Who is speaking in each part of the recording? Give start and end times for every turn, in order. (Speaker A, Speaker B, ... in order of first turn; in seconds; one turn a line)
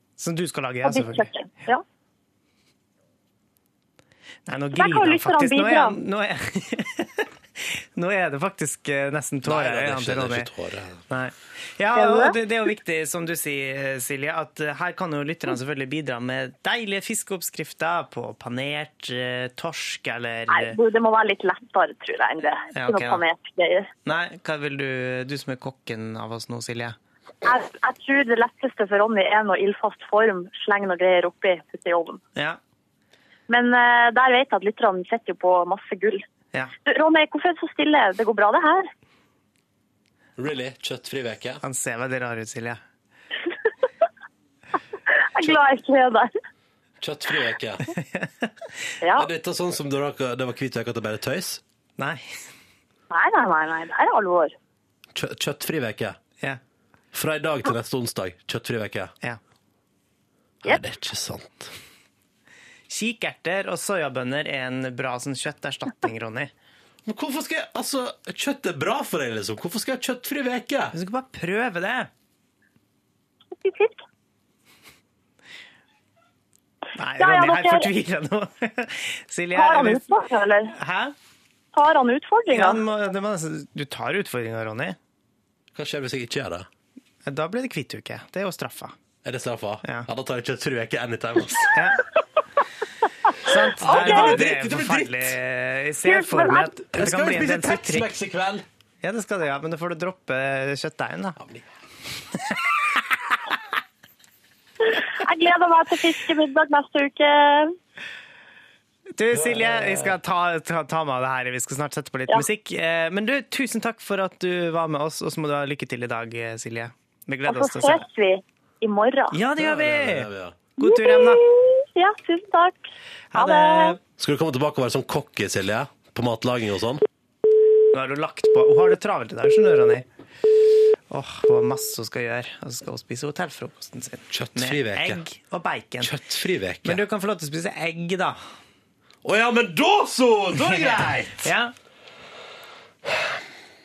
Speaker A: 0.2-1.3
Speaker B: 0.8-1.8
Speaker A: 4.5-10.5
Speaker B: 4.8-6.0
Speaker C: 9.4-11.0
Speaker A: 11.1-20.8
Speaker B: 11.9-12.4
Speaker B: 20.5-23.9
Speaker A: 22.7-23.2
Speaker A: 24.1-27.0
Speaker B: 27.4-32.2
Speaker B: 33.5-36.2
Speaker B: 36.9-38.9
Speaker C: 40.4-41.6
Speaker A: 41.6-42.8
Speaker B: 45.2-46.3
Speaker C: 47.0-47.9
Speaker A: 47.9-48.5
Speaker B: 49.0-49.3
Speaker C: 49.2-51.6
Speaker A: 52.0-52.4
Speaker B: 53.1-54.5
Speaker C: 55.1-56.2
Speaker C: 57.1-59.1
Speaker C: 60.6-61.7
Speaker A: 62.9-66.5
Speaker C: 67.1-70.9
Speaker A: 70.9-72.1
Speaker B: 73.6-74.0
Speaker A: 77.0-80.1
Speaker B: 77.2-77.9
Speaker B: 79.5-80.7
Speaker A: 80.7-81.2
Speaker B: 81.7-82.8
Speaker A: 82.5-85.0
Speaker C: 85.8-86.7
Speaker A: 87.2-89.0
Speaker C: 89.2-91.7
Speaker A: 91.7-92.0
Speaker A: 93.4-98.1
Speaker C: 93.8-95.3
Speaker B: 93.9-94.4
Speaker B: 96.0-96.8
Speaker C: 96.9-98.7
Speaker A: 99.0-101.4
Speaker C: 101.4-101.7
Speaker B: 104.9-107.8
Speaker A: 109.2-118.1
Speaker C: 109.3-110.1
Speaker B: 117.5-119.4
Speaker A: 119.3-121.4
Speaker C: 119.6-120.6
Speaker B: 120.8-124.0
Speaker A: 123.3-124.0
Speaker C: 124.2-127.0
Speaker A: 127.9-130.1
Speaker A: 131.1-136.1
Speaker C: 134.3-135.2
Speaker C: 136.0-137.0
Speaker A: 136.8-138.4
Speaker C: 139.2-141.5
Speaker A: 140.6-141.7